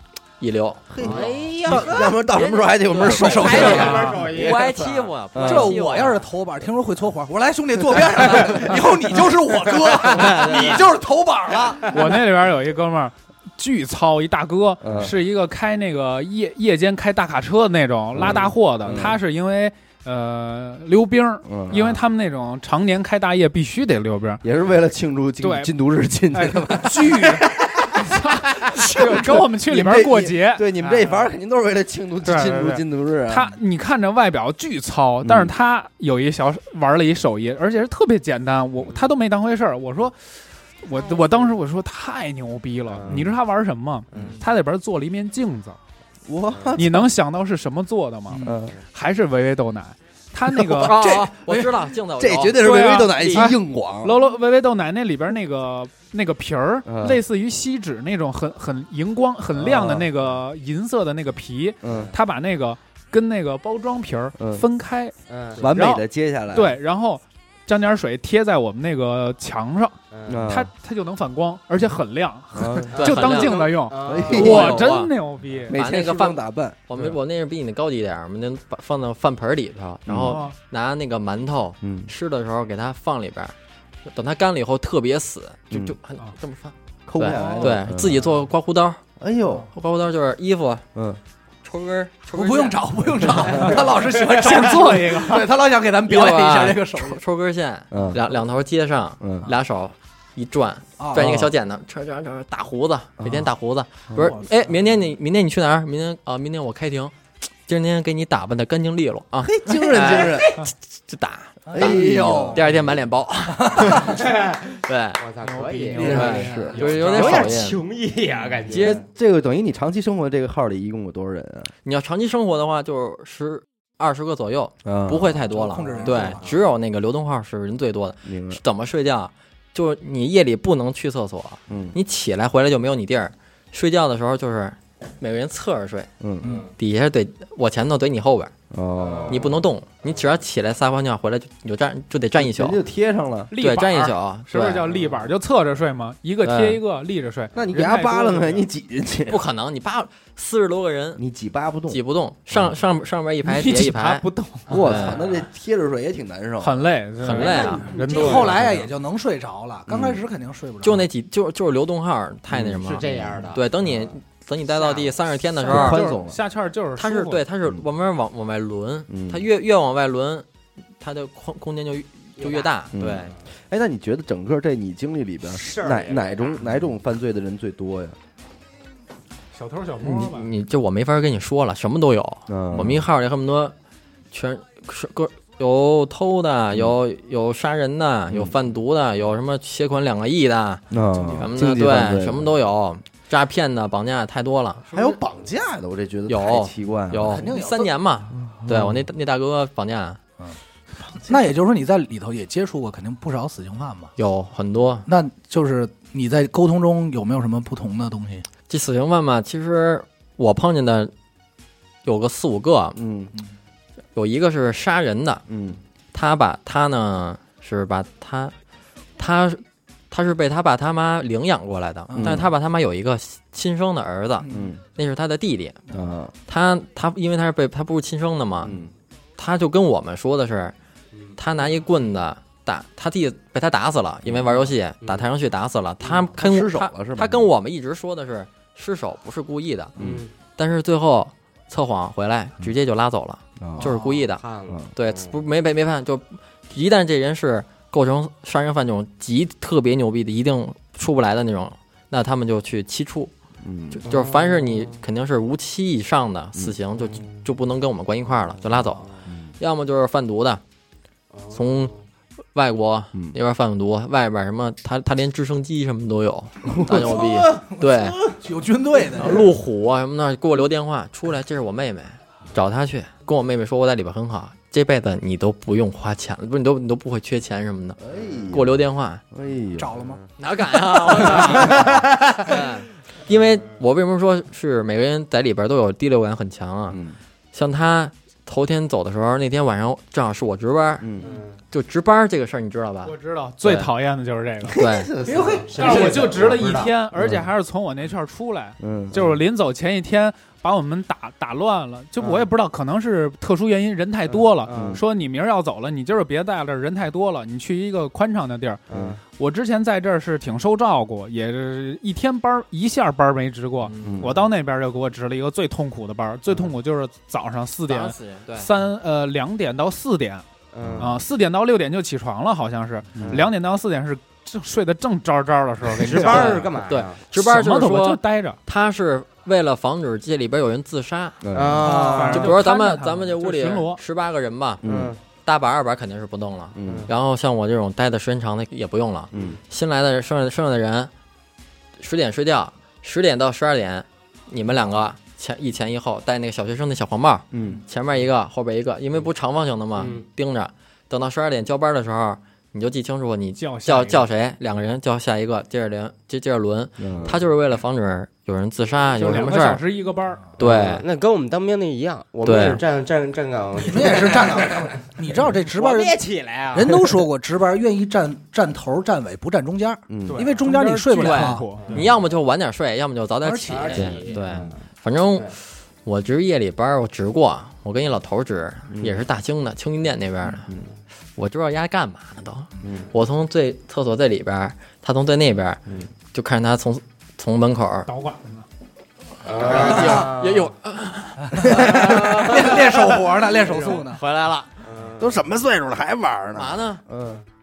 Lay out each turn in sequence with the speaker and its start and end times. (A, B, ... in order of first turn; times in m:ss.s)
0:00.4-0:02.7 A
0:00.9-0:04.5 B
0:01.0-0:02.2 C
0:02.9-0:04.6 D
0:03.1-0:05.0 C
0:03.2-0:06.2 A
0:03.7-0:04.2 E
0:05.3-0:05.8 B
0:05.4-0:12.0 D
0:10.2-0:10.8 A
0:10.2-0:10.5 C
0:11.8-0:24.4 E
0:14.8-0:15.2 B
0:18.1-0:19.2 B
0:21.4-0:22.0 B
0:24.4-0:27.5 B
0:25.4-0:25.7 E
0:26.3-0:31.2 E
0:28.6-0:33.5 B
0:32.2-0:40.2 E
0:35.2-0:35.5 B
0:40.8-0:45.8 E
0:42.9-0:43.3 C
0:44.1-0:44.4 C
0:46.3-0:47.1 B
0:46.5-0:46.8 C
0:46.7-0:51.0 E
0:48.3-0:48.6 D
0:48.4-0:48.7 B
0:50.4-0:50.9 B
0:50.8-0:53.5 A
0:51.0-0:51.7 D
0:52.2-0:54.2 B
0:52.6-1:09.9 E
0:56.8-0:57.2 B
0:59.6-1:00.1 B
1:01.8-1:02.1 B
1:01.8-1:02.1 C
1:04.4-1:04.6 B
1:05.3-1:05.7 C
1:05.6-1:06.8 B
1:10.1-1:10.4 C
1:10.3-1:10.7 B
1:10.5-1:15.7 E
1:12.5-1:13.0 B
1:12.9-1:14.7 C
1:13.0-1:13.7 A
1:14.0-1:14.9 B
1:14.3-1:15.1 A
1:15.6-1:16.8 B
1:15.7-1:23.5 A
1:20.1-1:20.4 B
1:20.2-1:20.6 E
1:21.8-1:22.1 B
1:24.1-1:29.0 A
1:27.1-1:28.3 B
1:27.3-1:27.8 D
1:29.2-1:29.7 B
1:29.7-1:30.8 A
1:30.9-1:31.2 B
1:31.6-1:33.7 A
1:32.3-1:37.2 D
1:33.7-1:34.6 C
1:34.4-1:35.5 E
1:36.0-1:47.1 A
1:37.9-1:38.2 B
1:39.2-1:39.5 B
1:41.0-1:41.5 D
1:41.1-1:41.5 B
1:43.2-1:43.5 B
1:44.1-1:44.4 B
1:44.2-1:44.7 D
1:47.6-1:50.5 A
1:49.4-1:50.6 B
1:50.0-1:50.6 C
1:51.1-1:51.6 A
1:51.7-1:52.6 D
1:51.7-1:52.9 B
1:52.5-1:55.2 A
1:53.6-1:54.2 D
1:54.0-1:54.6 C
1:55.2-1:59.0 C
1:55.4-1:57.6 E
1:56.0-1:56.8 B
1:56.0-1:56.4 D
1:56.0-1:57.8 A
1:58.7-1:59.0 A
1:58.8-2:01.7 B
2:01.8-2:16.1 A
2:04.8-2:05.3 B
2:05.5-2:06.5 D
2:06.1-2:06.4 C
2:08.2-2:08.6 B
2:11.7-2:12.0 B
2:16.2-2:16.6 B
2:16.4-2:16.7 C
2:16.8-2:18.5 A
2:18.7-2:19.5 B
2:19.0-2:19.4 C
2:19.3-2:22.8 A
2:22.4-2:23.5 B
2:23.5-2:28.6 E
2:23.6-2:24.9 A
2:24.9-2:25.2 C
2:26.4-2:26.8 A
2:27.5-2:29.4 B
2:29.3-2:31.2 A
2:31.2-2:32.0 B
2:31.9-2:35.2 A
2:33.4-2:35.0 E
2:34.7-2:36.9 B
2:36.6-2:38.7 E
2:37.2-2:37.9 A
2:37.3-2:38.6 C
2:38.1-2:41.1 D
2:39.9-2:40.2 B
2:40.8-2:46.0 A
2:42.5-2:43.5 B
2:42.8-2:44.0 C
2:44.8-2:45.1 C
2:45.7-2:46.4 B
2:45.7-2:47.4 E
2:47.0-2:50.4 A
2:49.1-2:49.4 B
2:51.0-2:53.3 A
2:52.4-2:53.4 C
2:52.9-2:58.2 B
2:55.5-2:56.6 C
2:59.5-3:00.5 E
3:00.0-3:03.7 A
3:02.5-3:03.0 B
3:04.3-3:10.8 A
3:08.3-3:08.6 B
3:10.9-3:12.5 B
3:11.1-3:11.5 D
3:11.4-3:14.9 A
3:14.9-3:17.5 B
3:16.3-3:20.2 A
3:17.2-3:17.9 D
3:18.3-3:19.0 B
3:21.1-3:24.1 D
3:24.2-3:25.1 A
3:25.1-3:28.4 D
3:28.7-3:31.1 A
3:32.0-3:33.0 A
3:33.0-3:33.3 B
3:34.1-3:35.4 A
3:35.5-3:35.8 B
3:36.1-3:38.5 A
3:39.2-3:45.8 A
3:42.1-3:42.4 D
3:42.1-3:42.5 B
3:44.4-3:44.7 D
3:44.5-3:44.8 B
3:45.9-3:46.3 B
3:46.5-3:48.8 A
3:48.6-3:48.9 B
3:49.4-3:50.7 A
3:51.4-3:59.9 A
3:54.2-3:54.5 B
3:56.3-3:57.5 B
4:00.0-4:00.2 B
4:00.0-4:00.3 C
4:00.6-4:04.4 A
4:03.6-4:04.0 B
4:03.8-4:04.2 D
4:04.4-4:05.3 C
4:04.9-4:13.3 A
4:13.6-4:14.0 B
4:13.9-4:19.1 A
4:14.0-4:15.0 C
4:17.0-4:17.4 C
4:19.3-4:19.5 B
4:19.6-4:20.6 A
4:21.3-4:22.0 C
4:21.5-4:21.9 A
4:22.5-4:28.2 A
4:26.6-4:27.3 B
4:26.9-4:29.5 D
4:29.2-4:38.0 A
4:38.0-4:39.9 B
4:38.5-4:39.2 A
4:39.8-4:40.2 D
4:40.0-4:40.2 C
4:40.4-4:47.0 A
4:41.2-4:41.9 D
4:41.3-4:42.4 C
4:46.9-4:47.2 B
4:47.5-4:51.0 A
4:51.0-4:51.3 B
4:51.2-4:51.6 C
4:51.7-4:53.9 A
4:53.0-4:54.8 E
4:54.7-4:55.6 B
4:54.7-4:55.1 A
4:55.2-4:56.9 C
4:55.3-4:56.1 D
4:55.7-5:20.4 E
4:57.1-4:57.5 B
4:58.8-4:59.4 B
5:04.3-5:05.0 C
5:04.7-5:05.0 B
5:08.9-5:09.2 C
5:08.9-5:09.2 B
5:14.0-5:14.4 B
5:17.9-5:18.7 A
5:20.7-5:21.2 C
5:20.8-5:21.2 B
5:21.0-5:26.7 E
5:23.2-5:23.5 B
5:23.2-5:23.4 C
5:26.0-5:27.2 C
5:26.0-5:26.5 B
5:26.3-5:31.4 A
5:27.3-5:28.6 E
5:31.4-5:32.3 B
5:31.5-5:32.5 C
5:31.8-5:32.4 D
5:31.9-5:34.0 E
5:32.3-5:34.8 A
5:34.8-5:35.1 B
5:34.8-5:35.2 C
5:35.4-5:41.1 A
5:36.7-5:37.1 B
5:36.8-5:37.1 C
5:39.3-5:39.6 C
5:42.0-5:59.8 A
5:47.5-5:47.8 B
5:50.0-5:50.2 C
5:53.6-5:54.3 E
5:57.0-5:57.4 B
5:59.1-6:00.5 E
6:00.6-6:01.0 A
6:00.6-6:05.0 C
6:02.4-6:02.8 A
6:03.8-6:06.2 D
6:05.7-6:07.2 C
6:06.7-6:11.7 D
6:10.1-6:10.4 B
6:10.3-6:12.1 E
6:11.2-6:20.7 A
6:13.4-6:14.2 D
6:13.7-6:14.8 C
6:18.9-6:19.2 B
6:21.4-6:25.8 A
6:22.8-6:23.1 B
6:26.3-6:28.1 A
6:28.1-6:28.6 E
6:29.4-6:30.7 C
6:29.6-6:32.7 A
6:29.6-6:30.3 D
6:31.5-6:34.2 D
6:32.0-6:32.7 C
6:33.6-6:34.0 C
6:34.1-6:34.7 A
6:34.8-6:35.4 C
6:35.2-6:37.4 B
6:36.5-6:37.0 A